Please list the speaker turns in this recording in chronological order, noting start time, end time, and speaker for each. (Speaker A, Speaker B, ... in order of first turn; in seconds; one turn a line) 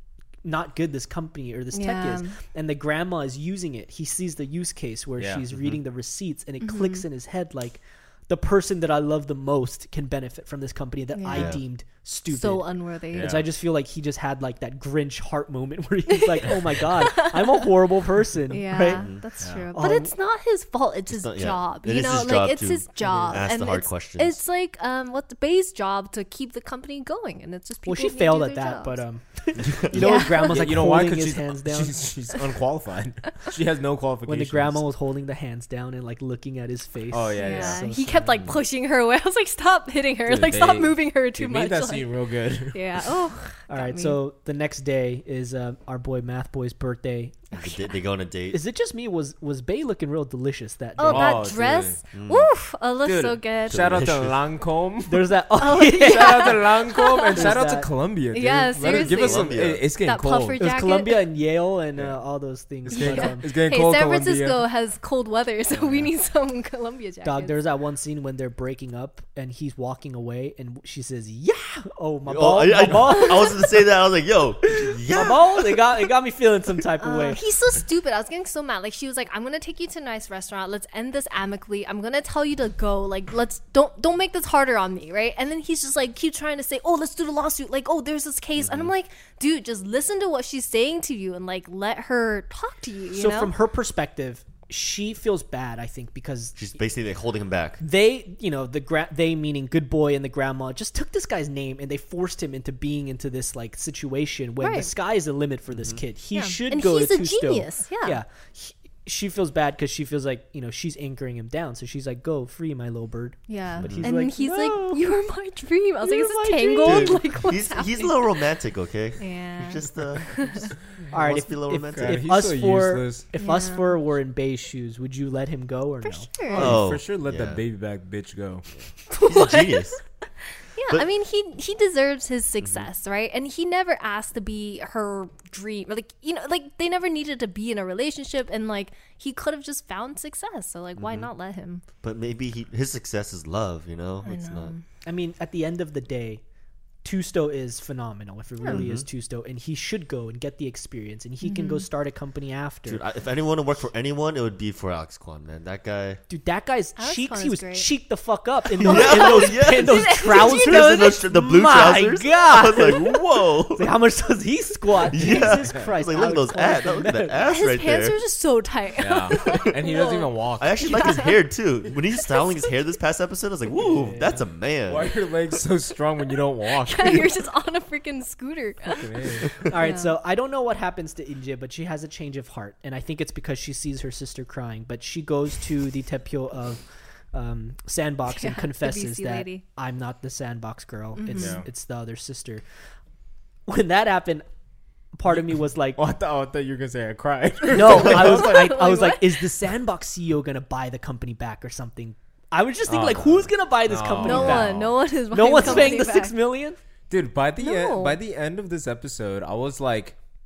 Speaker A: 0.4-19.1
Speaker B: 1.7-2.3
Speaker C: 5.2-5.5
Speaker B: 6.6-7.0
Speaker B: 11.1-11.6
Speaker D: 11.3-11.6
Speaker B: 12.3-13.3
Speaker C: 13.1-13.5
Speaker B: 16.1-17.7
Speaker B: 18.5-29.0
Speaker D: 18.9-19.2
Speaker C: 19.4-19.7
Speaker A: 19.7-20.1
Speaker D: 21.1-24.4
Speaker A: 27.8-31.9
Speaker D: 29.6-30.0
Speaker B: 29.9-30.6
Speaker C: 30.1-34.8
Speaker A: 34.2-38.3
Speaker C: 37.1-37.8
Speaker B: 37.4-42.1
Speaker C: 40.3-43.0
Speaker B: 42.7-44.2
Speaker A: 43.7-47.4
Speaker B: 47.5-47.8
Speaker D: 47.5-48.6
Speaker A: 48.5-51.4
Speaker B: 51.0-54.0
Speaker C: 51.0-52.0
Speaker D: 52.1-52.5
Speaker C: 53.0-60.6
Speaker D: 53.7-54.4
Speaker A: 55.0-56.6
Speaker B: 55.6-57.6
Speaker A: 57.3-57.9
Speaker B: 58.3-61.2
Speaker D: 58.8-59.8
Speaker A: 60.6-63.5
Speaker C: 62.9-64.7
Speaker B: 62.9-67.6
Speaker A: 67.2-73.6
Speaker D: 72.2-75.8
Speaker A: 74.8-77.4
Speaker B: 77.0-93.5
Speaker D: 88.6-88.9
Speaker A: 93.1-96.6
Speaker D: 96.5-97.8
Speaker A: 97.8-115.1
Speaker B: 104.6-104.9
Speaker D: 105.7-106.0
Speaker B: 106.3-108.2
Speaker B: 113.5-118.2
Speaker D: 113.8-114.1
Speaker A: 116.0-117.2
Speaker D: 116.8-122.2
Speaker B: 119.2-120.7
Speaker A: 121.1-126.8
Speaker C: 121.9-123.2
Speaker B: 123.4-124.0
Speaker B: 126.0-126.7
Speaker C: 126.5-128.7
Speaker D: 126.5-127.6
Speaker B: 129.1-130.0
Speaker D: 129.2-130.0
Speaker B: 130.7-141.8
Speaker D: 132.6-132.9
Speaker D: 141.0-141.3
Speaker D: 142.0-144.7
Speaker B: 144.2-144.8
Speaker A: 145.0-146.4
Speaker A: 147.0-153.0
Speaker B: 148.6-148.8
Speaker D: 148.7-149.1
Speaker B: 151.4-151.8
Speaker D: 152.8-156.2
Speaker A: 156.3-167.4
Speaker B: 157.0-157.9
Speaker D: 158.8-163.9
Speaker B: 158.8-161.2
Speaker D: 165.0-168.2
Speaker B: 167.4-171.4
Speaker C: 169.0-171.2
Speaker D: 169.4-169.7
Speaker D: 170.6-175.1
Speaker B: 172.2-172.7
Speaker A: 173.8-174.4
Speaker C: 174.9-177.3
Speaker B: 176.8-180.1
Speaker C: 178.9-179.5
Speaker A: 179.6-192.6
Speaker B: 188.3-189.6
Speaker B: 191.2-191.6
Speaker C: 191.3-191.7
Speaker A: 193.7-194.4
Speaker A: 195.1-196.0
Speaker C: 195.3-198.8
Speaker A: 197.7-204.8
Speaker B: 198.1-199.4
Speaker C: 202.9-205.0
Speaker B: 204.2-206.4
Speaker D: 204.3-204.6
Speaker A: 205.3-206.8
Speaker C: 205.6-205.8
Speaker C: 207.1-210.2
Speaker B: 207.6-208.2